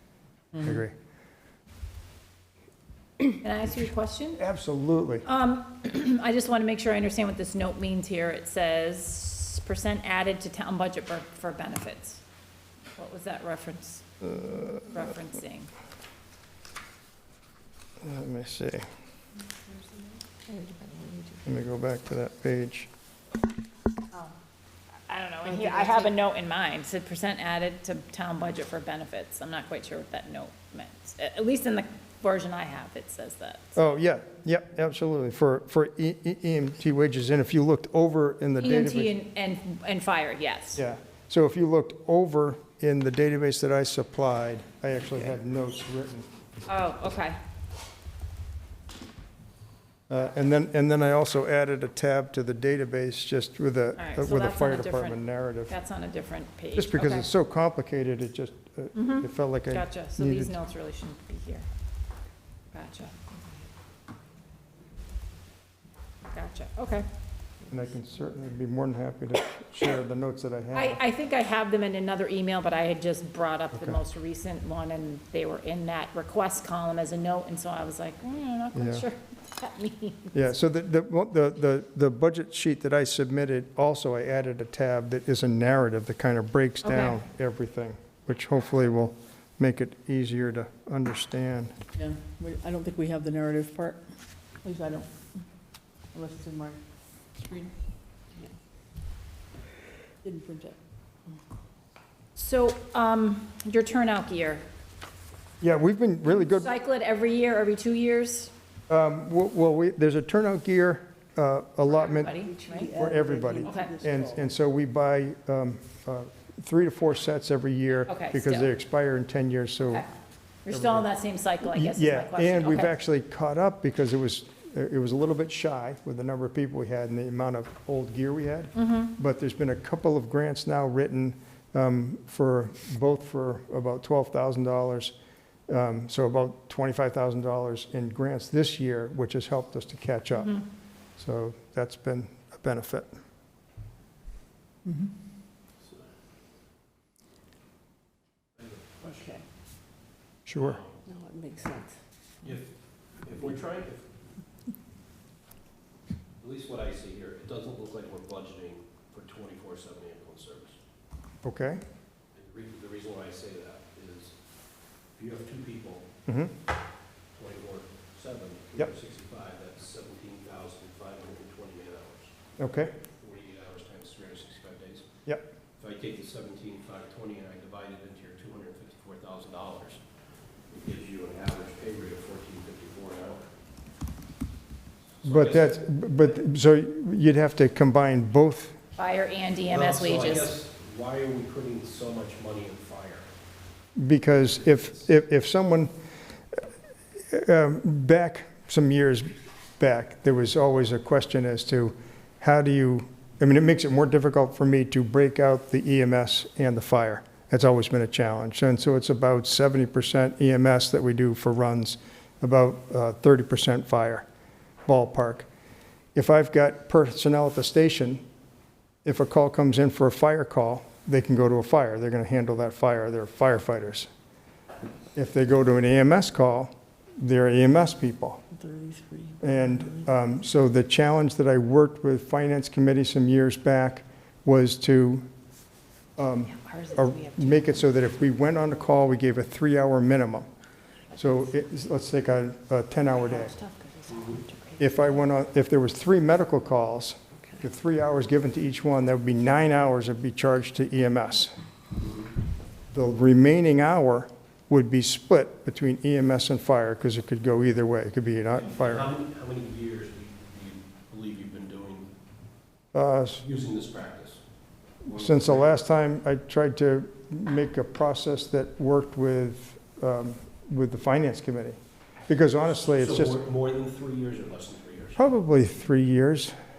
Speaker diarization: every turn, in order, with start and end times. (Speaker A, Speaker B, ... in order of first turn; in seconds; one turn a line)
Speaker A: 0.6-0.9
Speaker B: 3.3-4.4
Speaker A: 4.4-5.2
Speaker B: 5.2-12.2
Speaker B: 13.0-15.7
Speaker A: 18.0-18.9
Speaker A: 21.4-22.9
Speaker B: 25.1-33.8
Speaker A: 33.8-39.1
Speaker B: 38.6-40.8
Speaker A: 40.8-46.3
Speaker B: 46.7-47.4
Speaker A: 50.1-55.7
Speaker B: 54.0-57.3
Speaker A: 56.7-60.5
Speaker B: 58.9-61.7
Speaker B: 62.7-63.1
Speaker B: 66.3-67.0
Speaker A: 67.7-71.0
Speaker B: 70.7-80.5
Speaker A: 78.7-79.1
Speaker A: 80.3-91.7
Speaker B: 86.8-87.2
Speaker C: 91.9-94.0
Speaker C: 94.6-95.1
Speaker C: 96.1-96.8
Speaker C: 100.2-100.8
Speaker B: 102.3-104.7
Speaker A: 105.6-106.7
Speaker B: 106.4-108.5
Speaker A: 108.9-112.3
Speaker B: 111.9-112.9
Speaker C: 112.3-114.4
Speaker A: 112.9-120.0
Speaker B: 113.6-113.9
Speaker B: 118.0-118.7
Speaker B: 119.8-120.1
Speaker B: 120.6-122.9
Speaker A: 120.7-121.1
Speaker A: 121.6-135.1
Speaker B: 128.7-129.1
Speaker A: 135.7-140.6
Speaker A: 141.2-143.2
Speaker C: 144.8-145.1
Speaker D: 148.6-149.4
Speaker C: 149.1-149.4
Speaker A: 150.4-150.8
Speaker D: 150.5-151.0
Speaker C: 151.1-152.0
Speaker D: 152.4-152.7
Speaker D: 153.2-154.0
Speaker D: 156.4-160.8
Speaker A: 161.4-161.8
Speaker D: 162.3-164.3
Speaker D: 165.2-166.1
Speaker A: 166.2-166.5
Speaker D: 167.3-175.1
Speaker A: 172.6-172.9
Speaker D: 175.8-180.0
Speaker D: 180.7-183.5
Speaker D: 185.1-185.8
Speaker A: 185.2-188.8
Speaker B: 189.0-190.5
Speaker D: 189.7-193.3
Speaker A: 194.0-195.9
Speaker A: 197.3-214.2
Speaker A: 214.8-215.5
Speaker A: 216.1-218.2
Speaker A: 219.0-224.1
Speaker A: 225.1-228.4
Speaker C: 228.5-229.8
Speaker A: 229.4-235.2
Speaker A: 236.2-240.5
Speaker A: 241.1-243.5
Speaker D: 244.1-244.4
Speaker A: 244.8-251.5
Speaker D: 252.0-252.3
Speaker A: 252.9-259.1
Speaker D: 258.6-262.1
Speaker A: 262.9-263.4
Speaker D: 263.4-264.4
Speaker D: 265.0-265.7
Speaker A: 265.0-273.4
Speaker D: 272.9-275.2
Speaker A: 275.1-276.5